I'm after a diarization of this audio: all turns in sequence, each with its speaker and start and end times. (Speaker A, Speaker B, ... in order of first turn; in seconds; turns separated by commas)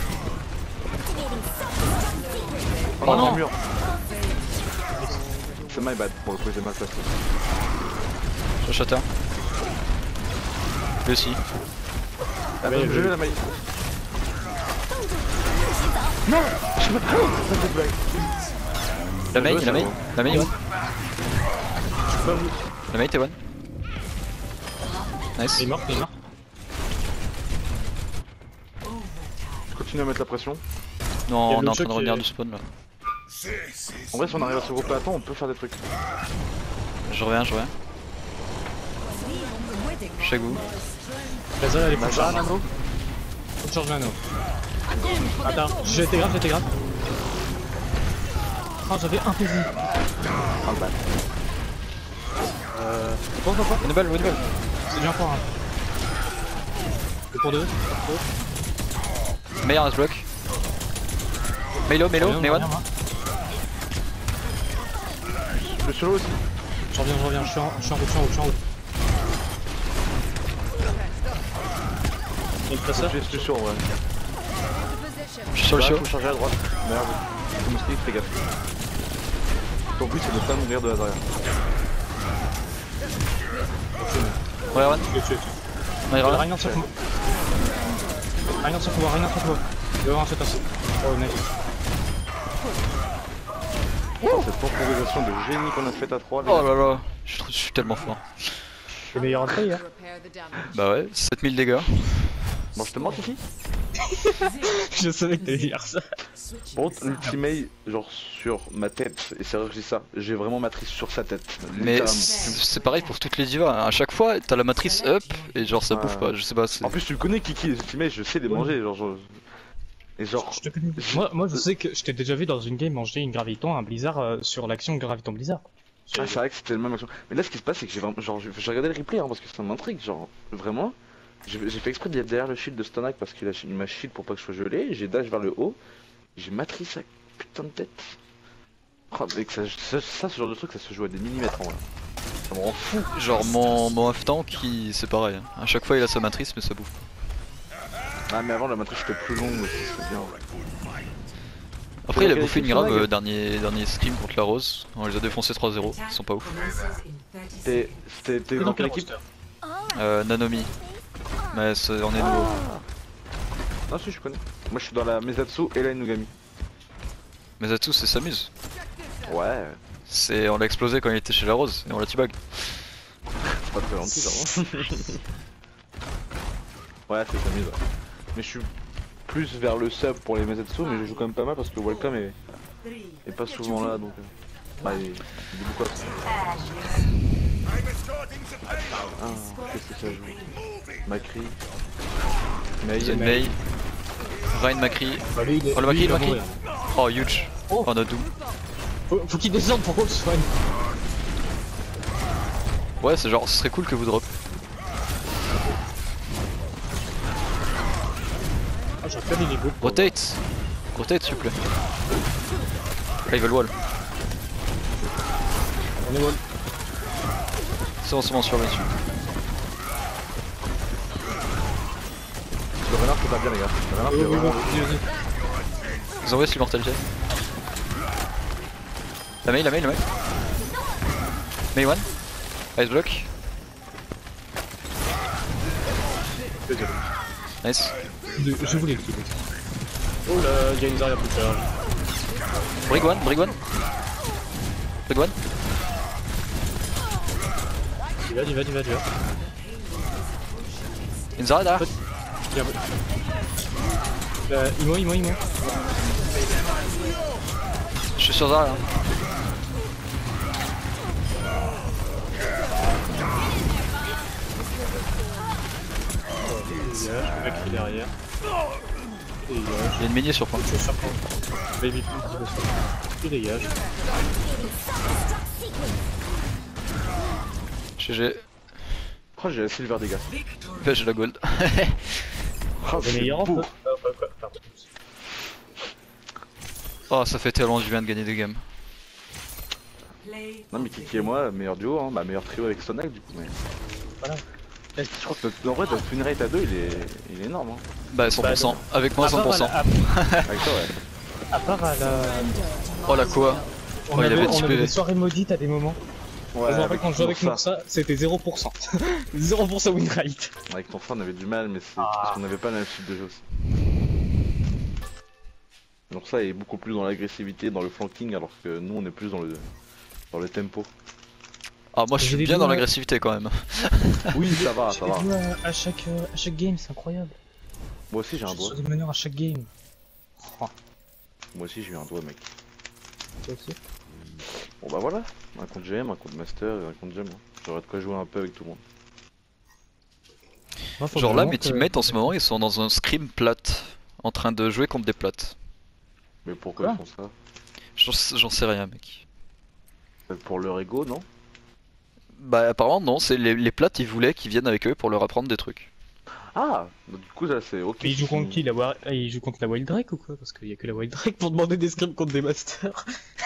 Speaker A: 3.0-3.6, Speaker B: 3.0-3.4, Speaker C: 3.0-3.4, Speaker C: 5.0-5.2, Speaker A: 5.6-7.2, Speaker B: 8.6-9.1, Speaker B: 11.1-11.4, Speaker C: 12.6-13.2, Speaker A: 12.6-13.5, Speaker A: 16.3-18.3, Speaker A: 19.3-20.4, Speaker B: 19.3-20.5, Speaker C: 20.3-20.5, Speaker C: 22.2-22.5, Speaker B: 22.9-23.4, Speaker B: 25.4-25.7, Speaker C: 25.6-26.1, Speaker A: 29.7-30.6, Speaker B: 31.3-32.7, Speaker C: 31.5-32.2, Speaker A: 34.1-35.8, Speaker B: 37.1-37.7, Speaker B: 40.2-40.7, Speaker C: 41.6-42.6, Speaker A: 42.0-42.6, Speaker C: 43.6-44.2, Speaker C: 45.4-46.7, Speaker C: 48.9-49.7, Speaker A: 50.6-51.0, Speaker C: 52.7-53.9, Speaker B: 53.8-54.4, Speaker C: 54.9-55.5, Speaker C: 57.3-58.2, Speaker B: 59.6-60.3, Speaker B: 61.9-62.7, Speaker C: 62.2-62.9, Speaker A: 65.6-66.4, Speaker C: 66.9-68.6, Speaker C: 72.7-73.5, Speaker A: 72.9-73.9, Speaker B: 75.5-76.1, Speaker A: 75.7-78.4, Speaker A: 80.0-81.3, Speaker C: 84.0-84.4, Speaker B: 84.7-85.1, Speaker C: 85.1-85.6, Speaker B: 86.1-86.9, Speaker C: 86.2-86.9, Speaker C: 88.6-91.5, Speaker A: 94.2-96.8, Speaker B: 96.5-98.4, Speaker C: 99.1-99.8, Speaker B: 100.7-102.5, Speaker A: 102.8-103.4, Speaker C: 104.1-106.0, Speaker A: 106.7-112.6, Speaker B: 111.7-117.0, Speaker A: 115.9-119.4, Speaker C: 118.5-118.7, Speaker A: 120.2-121.6, Speaker C: 120.4-126.4, Speaker A: 126.2-130.9, Speaker A: 131.5-135.8, Speaker A: 136.4-138.2, Speaker A: 139.1-141.8, Speaker A: 142.5-143.0, Speaker B: 142.9-146.9, Speaker A: 148.3-150.4, Speaker B: 152.1-156.5, Speaker A: 152.1-153.1, Speaker A: 157.6-159.1, Speaker C: 158.6-159.2, Speaker B: 159.9-160.7, Speaker B: 161.5-162.5, Speaker A: 162.1-162.8, Speaker A: 163.9-166.3, Speaker B: 167.6-168.5, Speaker A: 169.3-169.8, Speaker B: 170.1-172.9, Speaker A: 173.5-175.2, Speaker C: 174.2-174.5, Speaker A: 177.1-177.8, Speaker A: 178.3-178.7, Speaker A: 179.3-182.4, Speaker A: 183.2-184.3, Speaker A: 184.8-186.8, Speaker A: 188.9-190.5, Speaker A: 191.1-191.6, Speaker A: 192.8-193.4, Speaker B: 193.0-193.6, Speaker C: 193.0-193.5, Speaker B: 194.5-198.3, Speaker C: 195.3-196.6, Speaker C: 199.1-200.5, Speaker B: 203.0-204.3, Speaker C: 209.0-210.1, Speaker B: 209.8-210.4, Speaker B: 210.9-211.6, Speaker B: 213.3-213.7, Speaker C: 216.0-216.4, Speaker B: 218.0-218.9, Speaker A: 222.8-224.8, Speaker C: 224.1-225.1, Speaker B: 226.2-227.0, Speaker B: 229.4-230.0, Speaker B: 231.7-232.1, Speaker B: 232.8-233.3, Speaker C: 236.7-237.0, Speaker B: 237.6-237.9, Speaker C: 238.3-239.4, Speaker C: 240.3-241.7, Speaker B: 242.9-243.6, Speaker B: 245.1-245.4, Speaker C: 248.3-249.1, Speaker B: 251.4-251.9, Speaker C: 252.5-252.8, Speaker C: 254.5-255.4, Speaker B: 258.2-258.9, Speaker C: 266.4-268.1, Speaker C: 269.4-270.0, Speaker B: 270.0-270.6, Speaker C: 270.6-271.2, Speaker C: 271.8-273.8, Speaker B: 278.0-278.6, Speaker A: 279.4-280.4, Speaker B: 280.8-282.3, Speaker A: 282.8-283.7, Speaker C: 283.0-284.9, Speaker B: 287.1-288.6, Speaker A: 290.7-293.6, Speaker A: 295.0-297.8, Speaker B: 298.1-300.7, Speaker C: 298.4-300.1, Speaker A: 300.5-301.0, Speaker C: 301.5-302.6, Speaker B: 303.1-305.0, Speaker C: 304.1-306.0, Speaker A: 306.5-307.6, Speaker C: 306.7-310.5, Speaker A: 310.7-313.4, Speaker C: 312.0-312.4, Speaker A: 316.1-319.7, Speaker A: 320.3-320.9, Speaker B: 321.9-324.4, Speaker C: 322.2-322.9, Speaker A: 324.3-325.3, Speaker C: 324.5-327.4, Speaker A: 328.1-328.8, Speaker C: 328.5-329.7, Speaker C: 330.4-330.7, Speaker A: 331.5-332.5, Speaker C: 333.5-333.8, Speaker A: 334.8-338.8, Speaker C: 341.0-342.3, Speaker B: 341.1-345.6, Speaker A: 346.4-347.3, Speaker B: 348.0-349.2, Speaker A: 350.3-351.2, Speaker B: 352.4-355.9, Speaker A: 356.5-358.6, Speaker C: 358.0-363.1